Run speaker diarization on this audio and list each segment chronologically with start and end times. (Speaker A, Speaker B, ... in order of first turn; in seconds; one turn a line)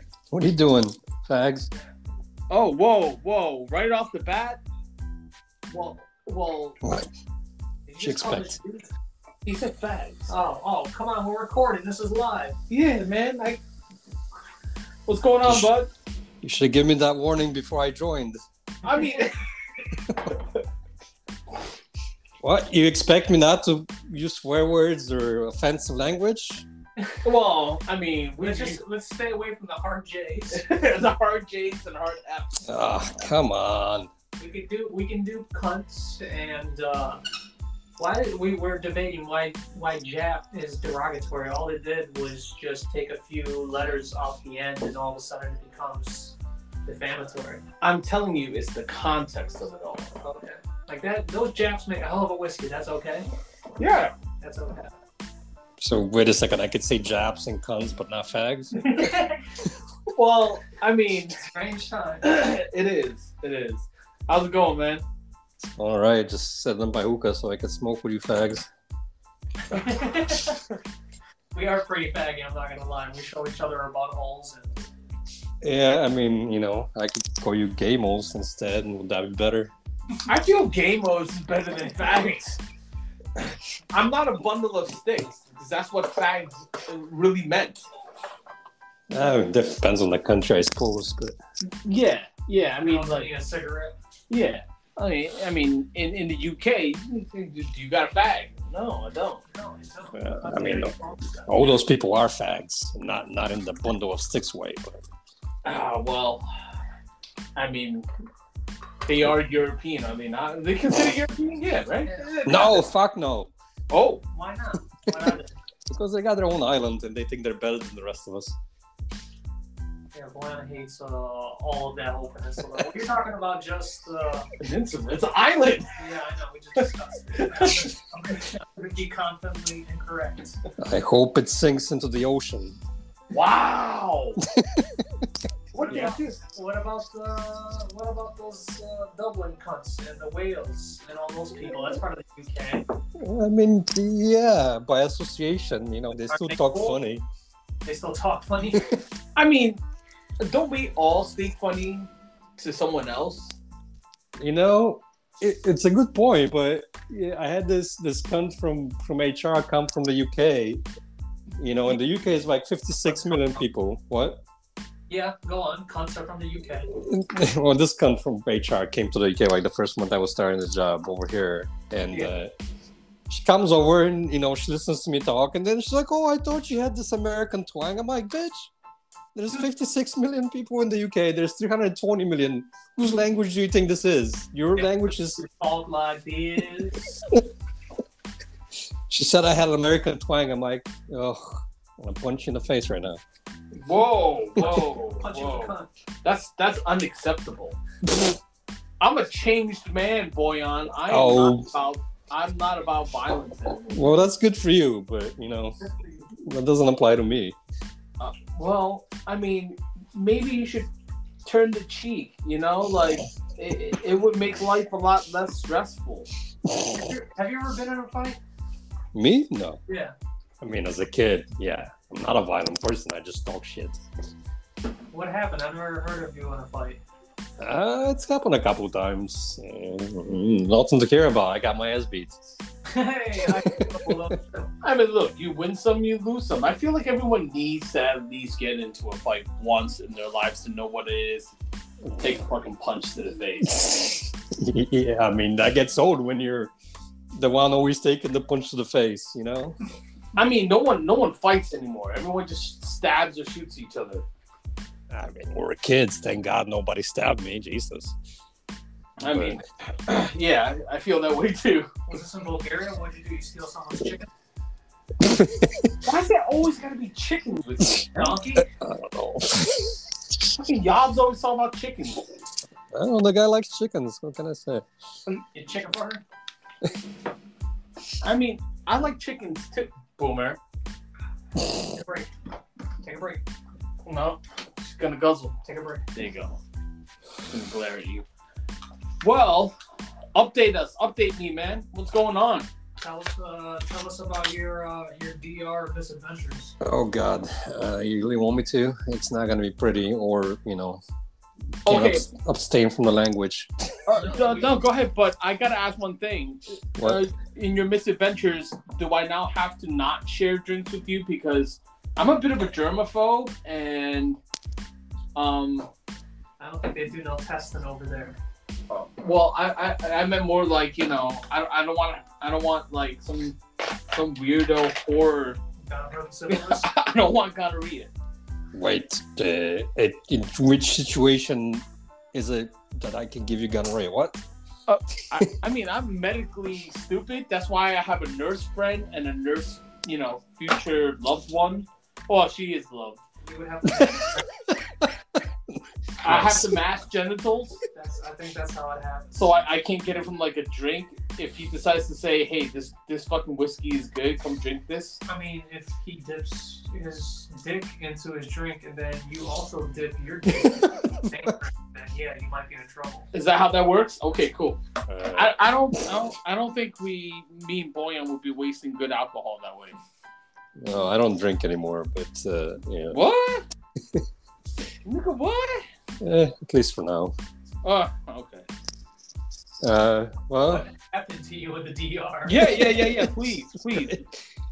Speaker A: 0.3-1.7
Speaker B: 2.5-4.6
Speaker B: 5.7-6.8
Speaker A: 6.8-7.1
Speaker C: 7.9-8.9
Speaker A: 8.0-8.6
Speaker B: 9.4-10.3
Speaker C: 10.3-12.6
Speaker B: 12.7-13.6
Speaker B: 15.1-15.9
Speaker A: 15.4-15.7
Speaker A: 16.4-18.4
Speaker B: 18.8-19.4
Speaker A: 22.4-26.6
Speaker B: 27.2-28.8
Speaker C: 28.4-30.6
Speaker B: 30.5-32.6
Speaker A: 32.6-34.1
Speaker C: 34.4-37.2
Speaker C: 38.0-47.6
Speaker B: 47.8-50.1
Speaker C: 50.2-53.3
Speaker B: 53.8-54.1
Speaker C: 54.4-54.9
Speaker A: 55.8-59.1
Speaker C: 58.8-59.4
Speaker B: 60.1-61.4
Speaker C: 61.4-62.3
Speaker B: 62.2-65.0
Speaker A: 65.8-68.7
Speaker C: 69.7-70.6
Speaker C: 71.5-74.9
Speaker A: 75.6-79.7
Speaker B: 80.3-82.6
Speaker B: 83.9-87.8
Speaker A: 89.1-91.4
Speaker B: 91.8-93.3
Speaker C: 92.8-93.9
Speaker B: 94.3-99.4
Speaker C: 99.5-101.7
Speaker A: 100.1-101.0
Speaker A: 101.5-105.0
Speaker B: 105.6-106.5
Speaker B: 107.6-108.1
Speaker B: 109.0-112.8
Speaker C: 112.0-112.6
Speaker A: 112.5-113.5
Speaker B: 113.9-114.2
Speaker C: 114.3-115.5
Speaker A: 115.9-118.6
Speaker C: 120.1-124.5
Speaker B: 124.6-125.9
Speaker C: 126.0-130.6
Speaker B: 127.4-127.9
Speaker A: 130.8-132.8
Speaker B: 133.3-134.4
Speaker A: 134.4-135.3
Speaker B: 135.7-136.4
Speaker C: 135.8-142.8
Speaker A: 143.2-147.2
Speaker C: 146.3-147.0
Speaker C: 147.8-148.9
Speaker A: 148.7-149.0
Speaker B: 149.4-149.8
Speaker B: 150.4-153.6
Speaker A: 154.4-160.8
Speaker A: 161.6-164.4
Speaker C: 165.1-166.9
Speaker A: 166.9-172.5
Speaker A: 173.3-178.7
Speaker A: 179.3-185.4
Speaker C: 184.8-187.1
Speaker A: 189.1-193.2
Speaker B: 193.7-195.7
Speaker C: 194.6-195.9
Speaker B: 196.2-197.8
Speaker B: 199.0-203.8
Speaker A: 201.1-201.7
Speaker A: 203.8-205.8
Speaker A: 206.4-207.6
Speaker B: 208.2-210.9
Speaker B: 211.4-216.3
Speaker A: 216.7-217.1
Speaker C: 216.9-218.4
Speaker A: 219.1-219.8
Speaker C: 219.9-220.1
Speaker A: 220.6-224.0
Speaker C: 225.1-227.0
Speaker A: 227.6-232.4
Speaker C: 232.9-234.7
Speaker A: 233.4-234.3
Speaker B: 234.8-241.5
Speaker B: 242.1-243.9
Speaker A: 243.6-246.7
Speaker A: 247.3-249.8
Speaker B: 250.4-254.2
Speaker A: 255.1-258.2
Speaker A: 259.2-259.6
Speaker B: 259.2-261.9
Speaker C: 262.1-264.3
Speaker A: 265.2-266.0
Speaker B: 266.0-268.4
Speaker C: 268.2-268.7
Speaker A: 268.6-270.1
Speaker B: 270.6-272.2
Speaker A: 272.9-274.9
Speaker C: 275.3-276.2
Speaker B: 278.2-280.6
Speaker C: 281.8-282.3
Speaker C: 283.0-283.4
Speaker B: 284.1-285.6
Speaker C: 285.6-286.0
Speaker B: 286.1-286.6
Speaker B: 287.5-288.2
Speaker B: 289.2-289.8
Speaker B: 290.3-292.7
Speaker C: 293.0-296.8
Speaker A: 296.8-301.0
Speaker B: 301.9-302.2
Speaker A: 301.9-304.2
Speaker B: 304.1-314.4
Speaker C: 304.1-304.8
Speaker B: 315.4-315.9
Speaker C: 316.6-318.4
Speaker B: 318.9-323.6
Speaker B: 324.1-325.6
Speaker C: 325.8-326.9
Speaker B: 326.5-328.1
Speaker A: 328.7-334.4
Speaker B: 334.9-343.2
Speaker C: 343.4-344.5
Speaker A: 344.0-346.8
Speaker B: 346.2-347.8
Speaker C: 347.9-349.4
Speaker B: 349.3-355.2
Speaker C: 355.3-363.3
Speaker A: 360.6-361.5
Speaker B: 363.3-364.8
Speaker A: 365.1-366.2
Speaker B: 365.3-370.0
Speaker A: 370.8-373.2
Speaker B: 373.1-373.6
Speaker B: 375.1-375.9
Speaker A: 376.2-377.4
Speaker B: 377.8-378.7
Speaker A: 379.8-380.9
Speaker C: 380.7-382.7
Speaker B: 382.5-384.2
Speaker A: 382.6-383.3
Speaker A: 383.9-384.4